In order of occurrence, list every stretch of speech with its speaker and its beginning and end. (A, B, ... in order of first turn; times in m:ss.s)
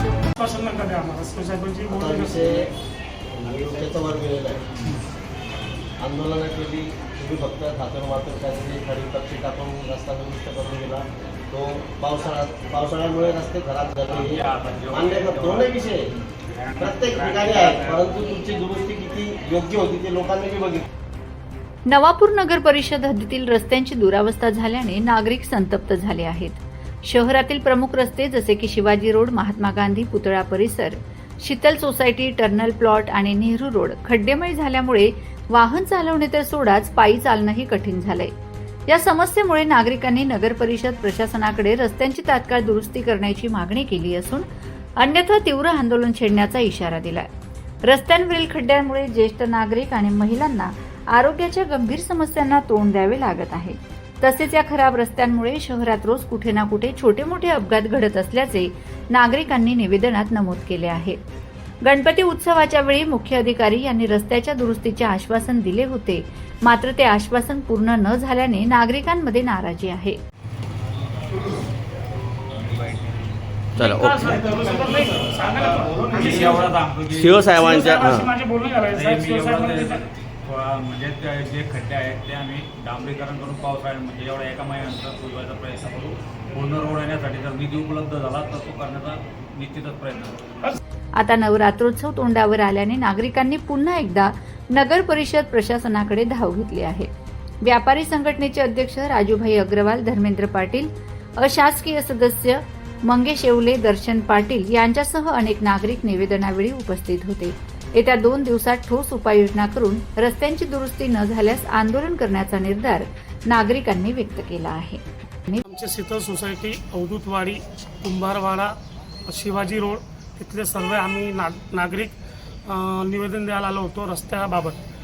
0:00.4-0:02.7 A
0:01.9-0:02.7 B
0:03.4-0:04.6 B
0:06.0-0:16.1 B
0:14.1-0:18.0 C
0:16.8-0:20.8 B
0:21.9-0:38.3 D
0:38.9-0:44.5 D
0:45.0-0:47.3 D
0:47.8-1:01.2 D
1:01.8-1:10.2 D
1:12.7-1:13.2 C
1:13.8-1:14.5 B
1:13.8-1:16.7 A
1:16.1-1:17.6 C
1:17.2-1:18.3 B
1:17.5-1:20.0 A
1:18.9-1:30.8 C
1:31.2-1:37.1 D
1:37.6-1:55.6 D
1:55.6-2:02.1 A
2:02.7-2:04.8 A